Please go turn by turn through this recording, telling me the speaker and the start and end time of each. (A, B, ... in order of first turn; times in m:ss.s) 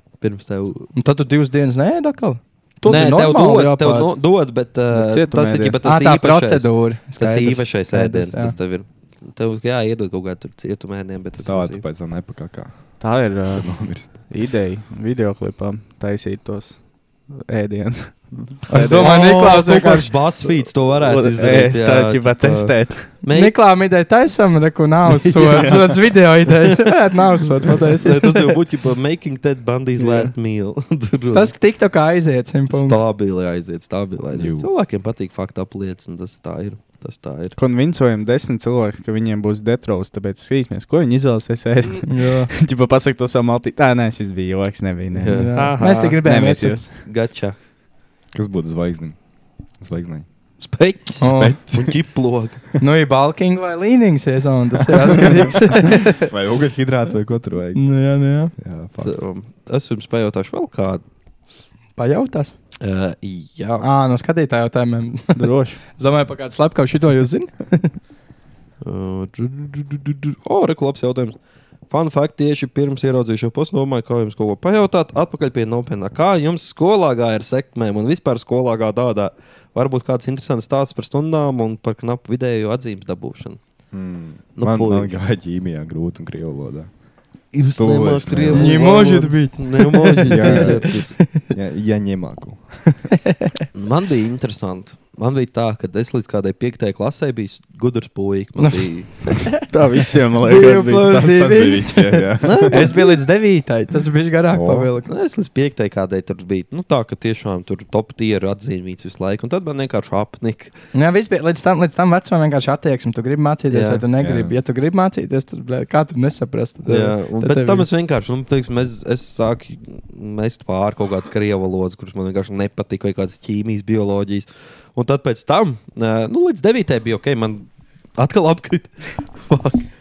0:00.2-0:00.9 A
0:00.9-0:04.1 B
0:02.8-0:11.8 A
0:04.9-0:05.8 C
0:05.8-0:08.5 B
0:11.4-0:14.2 D
0:13.0-0:19.2 C
0:18.7-0:20.2 B
0:18.7-0:23.5 A
0:21.0-0:23.1 C
0:23.2-0:28.5 B
0:25.3-0:26.0 A
0:27.9-0:31.5 A
0:30.0-0:30.3 C
0:31.3-0:33.0 B
0:32.7-0:37.5 A
0:34.3-0:34.7 D
0:37.6-0:45.6 C
0:42.1-0:42.5 B
0:45.1-0:46.2 A
0:45.3-0:46.9 B
0:46.2-0:46.9 C
0:47.0-0:47.6 A
0:48.3-0:50.3 D
0:50.6-0:52.6 A
0:51.2-0:51.6 B
0:51.2-0:51.9 D
0:52.8-0:56.2 B
0:55.0-0:55.4 A
0:56.2-0:57.9 D
0:57.7-0:58.5 B
0:58.6-0:59.3 D
0:59.0-1:01.0 A
1:02.0-1:02.5 B
1:02.8-1:03.8 A
1:03.8-1:05.4 B
1:05.3-1:05.8 C
1:05.9-1:07.9 B
1:08.8-1:11.4 A
1:11.9-1:23.6 A
1:23.9-1:26.9 D
1:24.6-1:25.1 A
1:27.5-1:31.2 A
1:27.7-1:28.8 D
1:28.5-1:31.4 B
1:30.3-1:32.8 D
1:33.3-1:33.6 B
1:33.7-1:39.5 A
1:38.6-1:39.6 B
1:39.6-1:41.3 C
1:40.4-1:45.1 B
1:41.0-1:42.9 D
1:42.4-1:43.1 A
1:44.5-1:44.9 D
1:45.0-1:50.7 A
1:50.9-1:57.9 B
1:53.7-1:54.0 A
1:54.2-1:54.5 D
1:56.8-2:09.8 A